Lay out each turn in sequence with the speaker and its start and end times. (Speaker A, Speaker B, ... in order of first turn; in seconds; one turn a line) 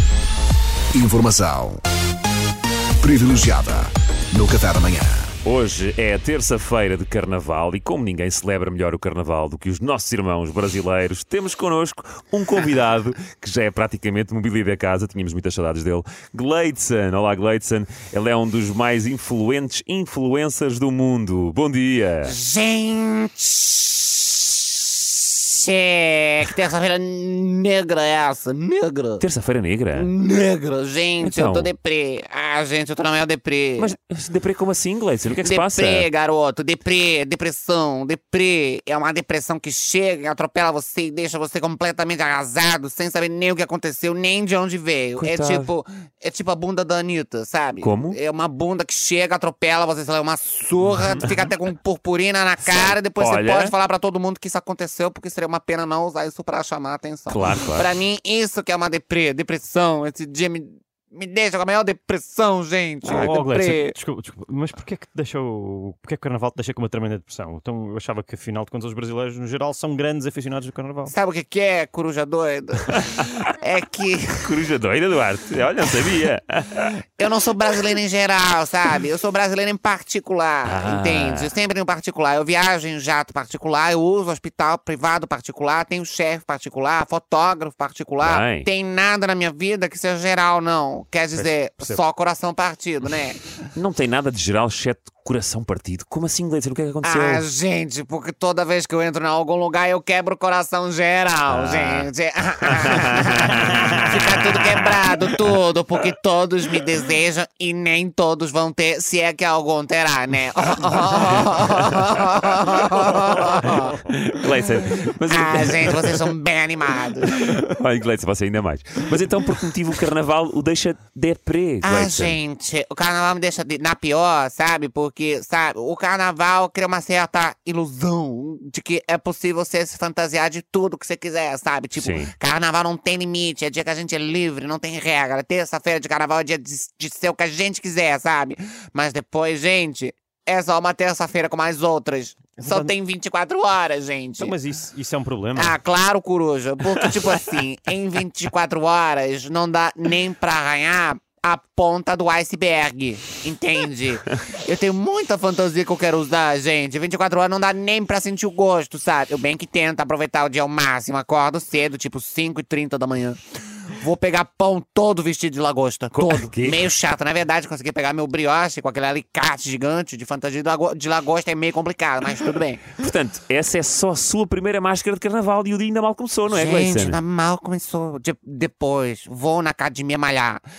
Speaker A: 0.9-1.8
Speaker A: 3.0-5.3
Speaker B: 5.4-22.4
Speaker C: 22.2-29.2
Speaker B: 29.2-30.1
Speaker C: 29.9-33.9
Speaker B: 31.2-31.7
Speaker B: 33.8-36.1
Speaker C: 35.4-63.9
Speaker B: 45.2-45.7
Speaker B: 47.8-48.2
Speaker B: 50.9-51.3
Speaker B: 52.6-53.7
Speaker B: 57.3-57.9
Speaker D: 63.0-71.1
Speaker C: 71.1-74.5
Speaker B: 72.9-73.3
Speaker B: 74.4-77.0
Speaker C: 77.2-93.4
Speaker B: 80.6-81.5
Speaker B: 88.2-88.7
Speaker D: 91.3-92.0
Speaker B: 93.7-97.5
Speaker C: 97.0-114.0
Speaker B: 101.5-102.1
Speaker B: 102.7-104.8
Speaker B: 113.0-116.3
Speaker C: 115.3-117.4
Speaker B: 117.3-122.4
Speaker C: 121.8-144.5
Speaker B: 131.9-132.3
Speaker D: 142.6-142.9
Speaker D: 144.4-145.8
Speaker C: 145.5-163.4
Speaker C: 163.9-172.9
Speaker B: 166.1-166.9
Speaker B: 173.0-177.2
Speaker C: 176.5-180.6